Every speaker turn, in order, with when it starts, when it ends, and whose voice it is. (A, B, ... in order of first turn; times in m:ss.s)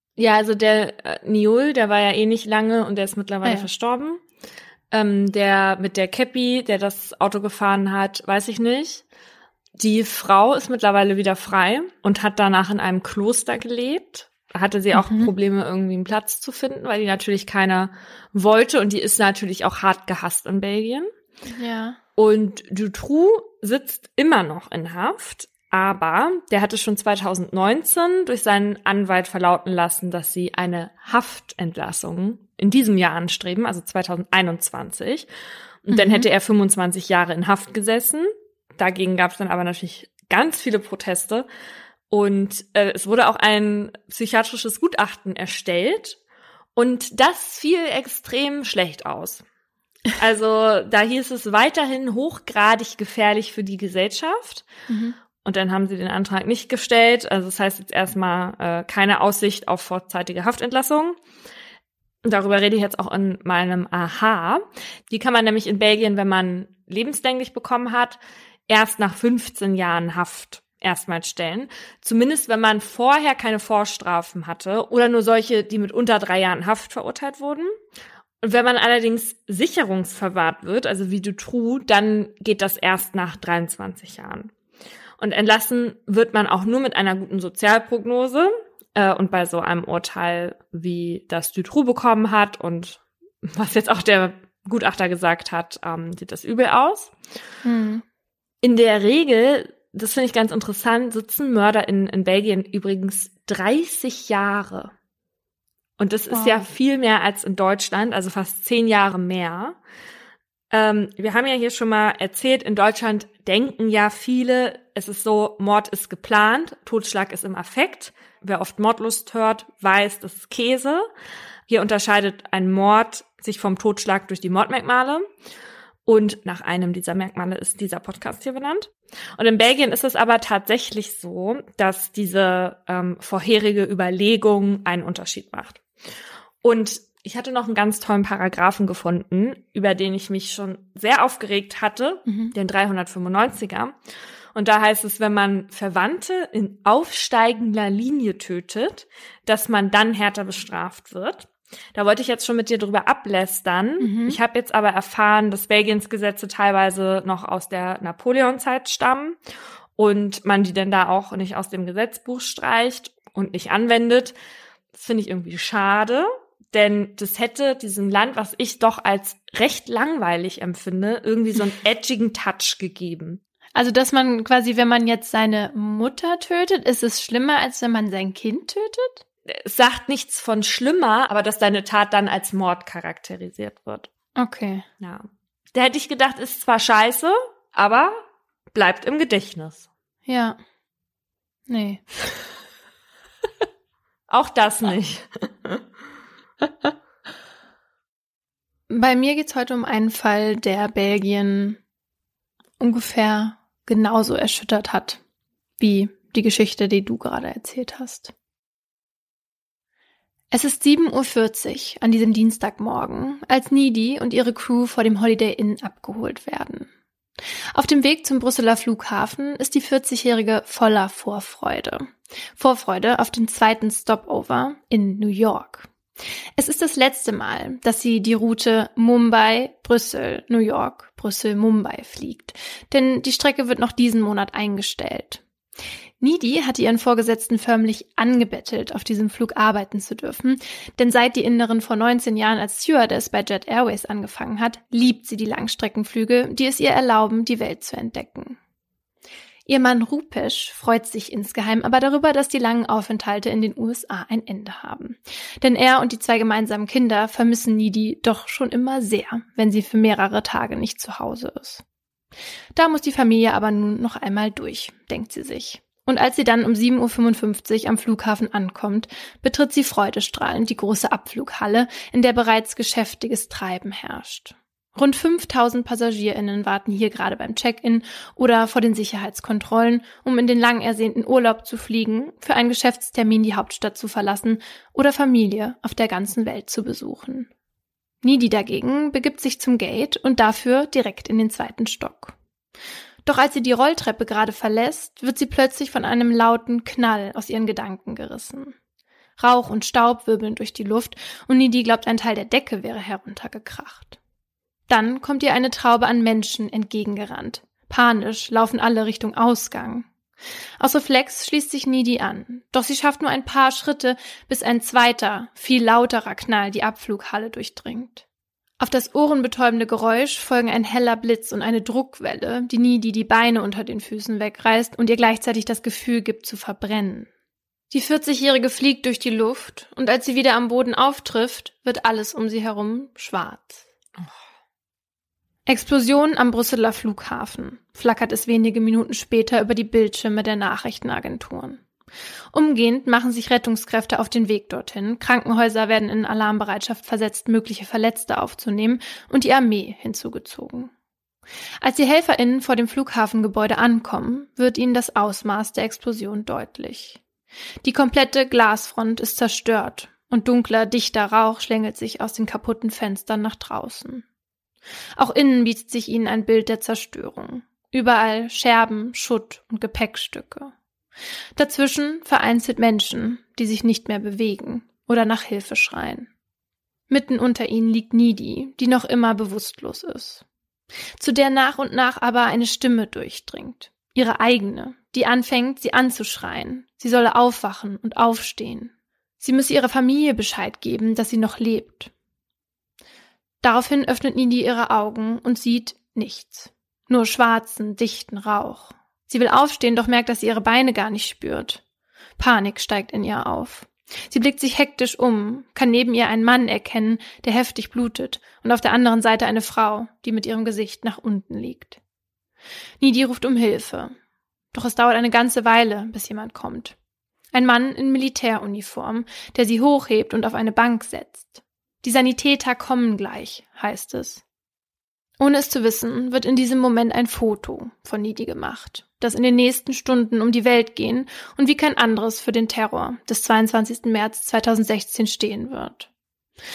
0:00.2-0:04.2 A
0:04.9-0:09.0 A
0:09.8-0:21.1 A
0:14.9-0:15.3 B
0:21.5-0:22.0 B
0:22.2-0:35.3 A
0:35.8-0:41.4 A
0:35.9-0:36.2 B
0:42.1-0:46.2 A
0:46.7-0:49.4 A
0:50.2-0:54.7 A
0:54.9-0:55.2 B
0:55.4-1:01.2 A
1:02.2-1:17.7 A
1:18.4-1:24.5 A
1:25.2-1:37.1 A
1:37.6-1:38.0 B
1:38.6-1:44.9 A
1:46.0-1:49.8 A
1:46.3-1:46.6 B
1:50.7-2:01.0 A
2:01.7-2:05.2 A
2:06.0-2:15.8 A
2:16.6-2:23.9 A
2:22.3-2:22.5 B
2:24.5-2:39.4 A
2:34.0-2:34.4 B
2:40.0-2:44.3 A
2:44.9-2:53.4 A
2:53.8-2:59.2 B
2:59.5-3:04.1 A
3:04.4-3:04.8 B
3:05.0-3:08.2 A
3:08.7-3:09.9 A
3:10.3-3:10.6 B
3:11.7-3:12.0 B
3:14.3-3:15.8 A
3:18.9-3:21.8 B
3:22.8-3:25.2 B
3:25.8-3:28.3 B
3:30.5-3:36.9 B
3:37.7-3:45.9 B
3:46.6-3:55.4 B
3:56.2-4:08.6 B
4:09.7-4:21.8 B
4:22.8-4:47.5 B
4:48.2-4:52.3 B
4:53.2-4:58.7 B
4:59.4-5:04.2 B
5:04.9-5:10.1 B
5:10.8-5:18.2 B
5:18.8-5:27.3 B
5:27.9-5:33.8 B
5:35.7-5:41.8 B
5:42.5-5:50.9 B
5:51.8-5:57.2 B
5:57.8-6:04.2 B
6:05.2-6:10.7 B
6:11.6-6:16.3 B
6:17.1-6:20.4 B
6:21.2-6:32.1 B
6:33.6-6:41.8 B
6:42.4-6:52.0 B
6:53.0-6:54.1 B
6:54.7-6:56.9 B
6:57.5-7:04.4 B
7:05.4-7:16.1 B